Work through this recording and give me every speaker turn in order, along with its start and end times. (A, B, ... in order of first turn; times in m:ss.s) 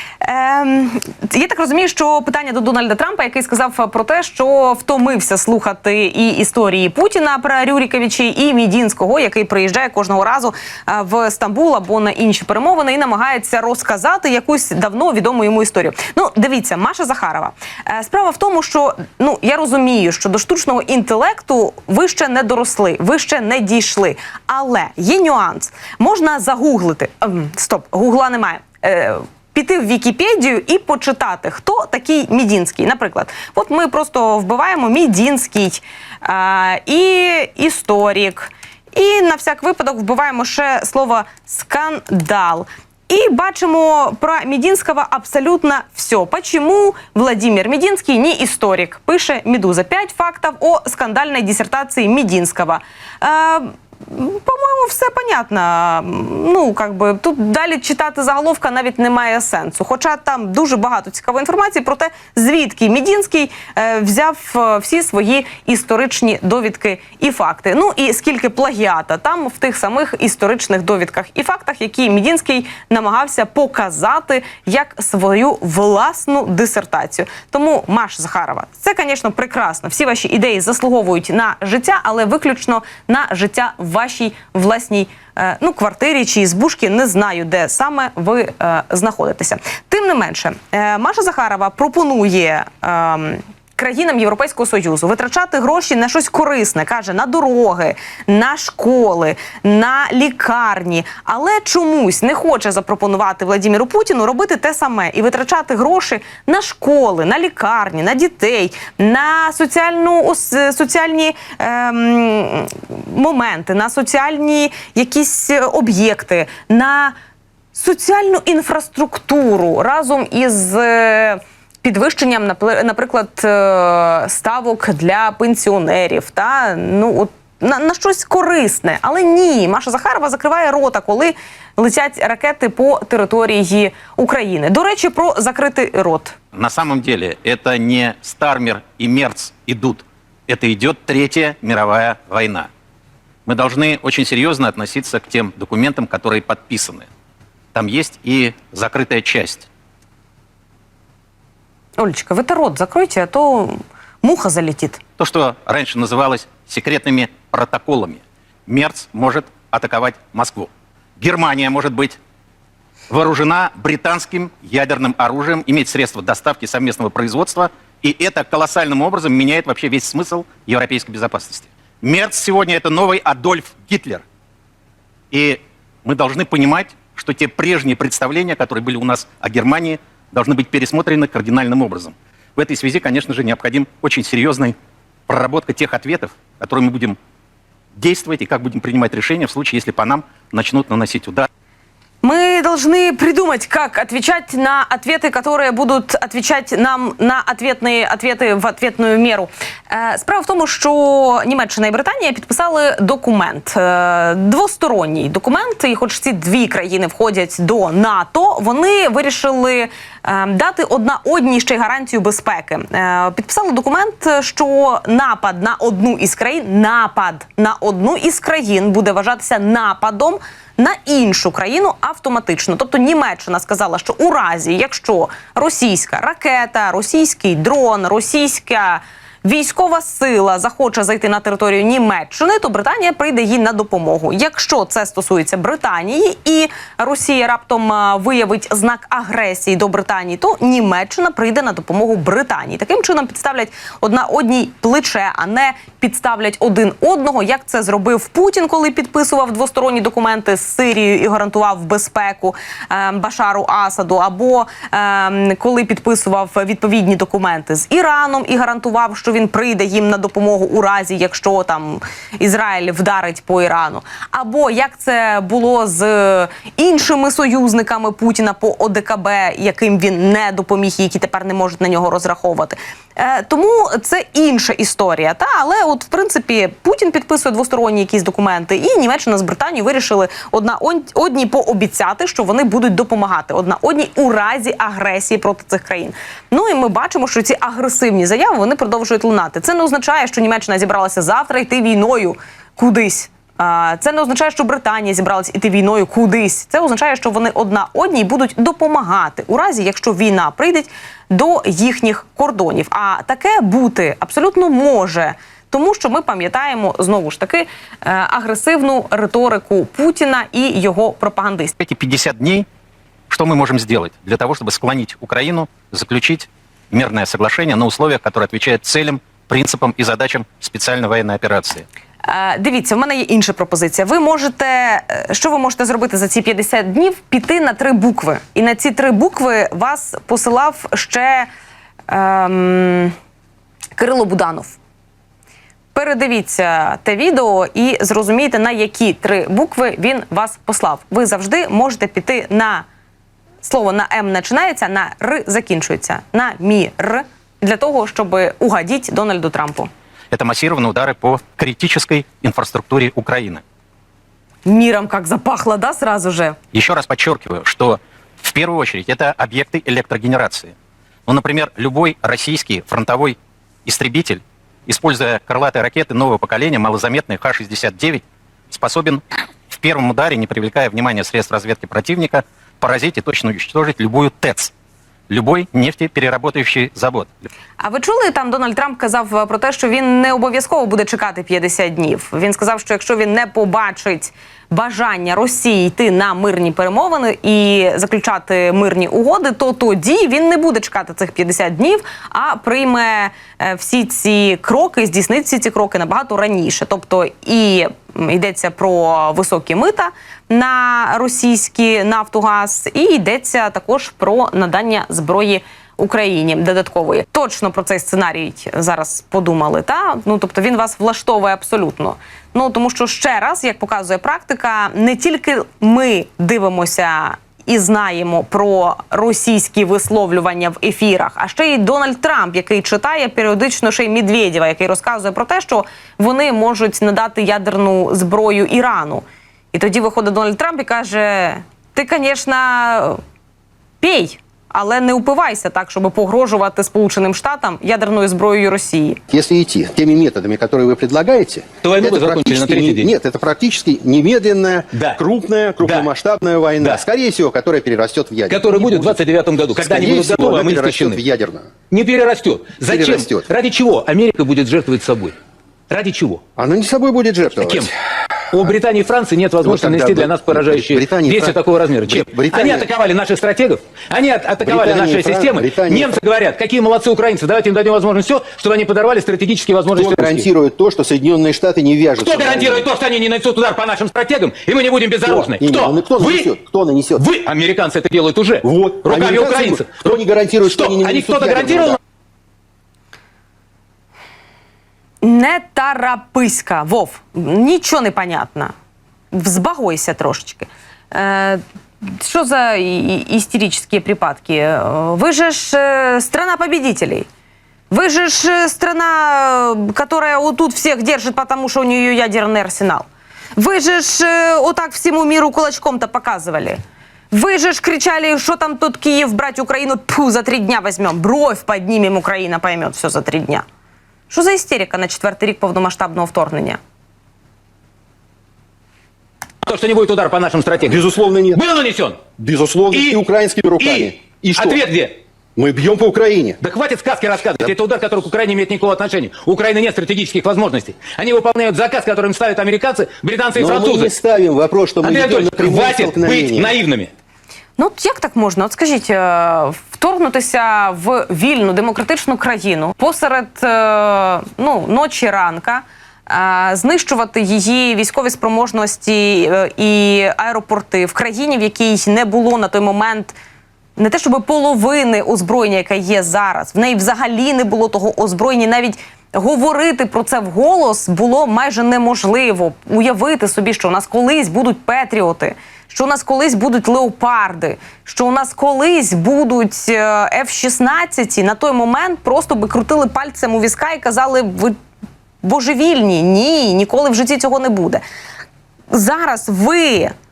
0:00.2-1:57.1 A
1:57.7-2:16.4 A
2:16.5-2:22.7 B
2:23.4-2:27.1 B
2:27.7-2:29.7 B
2:32.0-2:35.0 A
2:35.2-2:42.2 B
2:43.1-2:54.2 B
2:55.3-3:04.8 B
3:05.3-3:07.2 B
3:07.9-3:11.5 B
3:12.2-5:11.7 A
5:11.8-5:12.6 B
5:13.3-5:21.8 B
5:22.2-5:31.5 A
5:32.1-5:33.1 A
5:34.0-5:34.8 A
5:35.9-5:42.8 A
5:43.6-5:49.9 A
5:50.3-5:53.6 B
5:54.6-5:56.6 A
5:56.7-6:00.7 B
6:01.3-6:14.7 B
6:15.3-6:17.5 B
6:17.8-7:13.2 A
7:14.0-7:19.2 A
7:19.3-7:29.2 C
7:21.8-7:23.1 D
7:24.9-7:25.2 D
7:25.8-7:26.1 D
7:26.8-7:27.0 D
7:28.5-7:31.2 D
7:29.7-7:31.7 C
7:31.9-7:35.3 D
7:32.8-7:33.4 C
7:35.9-7:36.4 D
7:36.6-7:37.9 C
7:37.6-7:37.9 D
7:38.5-7:50.5 D
7:39.6-7:42.9 C
7:44.6-7:46.1 C
7:49.9-7:52.9 C
7:52.2-7:56.5 D
7:55.2-7:57.2 C
7:57.2-8:02.0 D
7:58.6-8:02.0 C
8:05.2-8:08.7 A
8:09.3-8:17.3 A
8:17.9-8:23.0 A
8:23.6-8:26.8 A
8:27.3-8:33.6 A
8:34.3-8:36.8 A
8:39.6-8:42.3 D
8:40.8-8:41.6 C
8:42.4-8:44.8 C
8:42.9-8:43.2 D
8:43.7-8:45.2 D
8:45.6-8:46.6 C
8:46.6-8:54.1 D
8:53.6-8:56.8 C
8:55.0-8:57.1 D
8:57.8-9:13.3 A
9:14.0-9:34.8 A
9:35.4-9:38.0 A
9:38.9-9:40.1 A